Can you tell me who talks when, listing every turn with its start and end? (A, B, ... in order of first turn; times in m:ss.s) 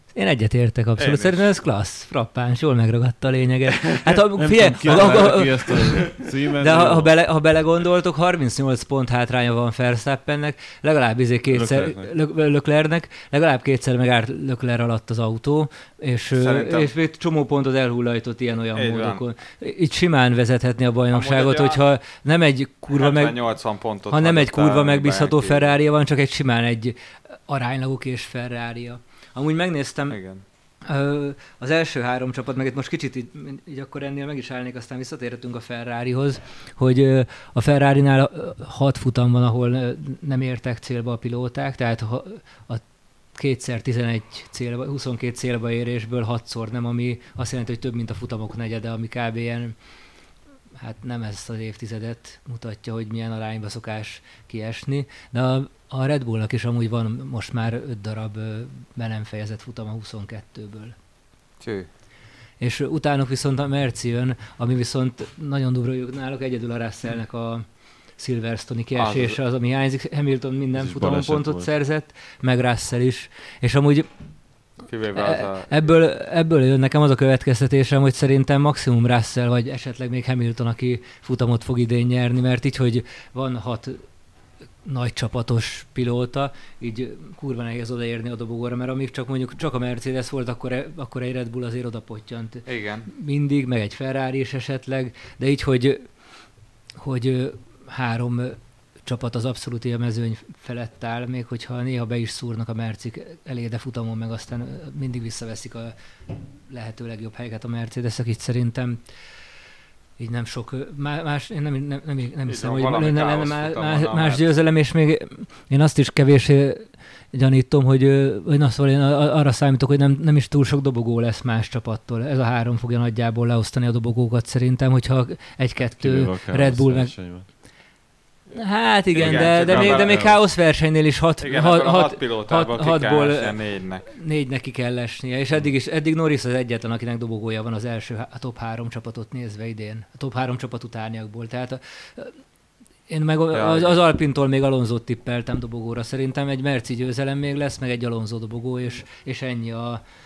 0:00.1-0:50.2 A
0:01.0-0:01.6 B
0:04.4-0:07.2 C
0:04.9-0:06.0 B
0:11.5-0:12.1 C
0:16.3-0:16.9 B
0:18.7-0:19.2 B
0:21.1-0:21.8 B
0:22.9-0:25.8 B
0:30.1-0:30.4 B
0:50.8-1:00.9 A
1:01.6-1:01.9 B
1:02.6-1:24.2 A
1:08.9-1:09.4 B
1:10.7-1:11.7 C
1:14.8-1:16.1 B
1:24.8-1:45.9 A
1:32.6-1:33.1 B
1:46.7-1:49.5 A
1:50.2-2:07.2 A
1:52.4-1:54.5 B
2:05.9-2:07.5 C
2:08.5-2:22.4 A
2:09.1-2:10.5 B
2:09.2-2:10.4 C
2:11.4-2:14.1 B
2:23.1-2:30.0 A
2:23.5-2:24.0 B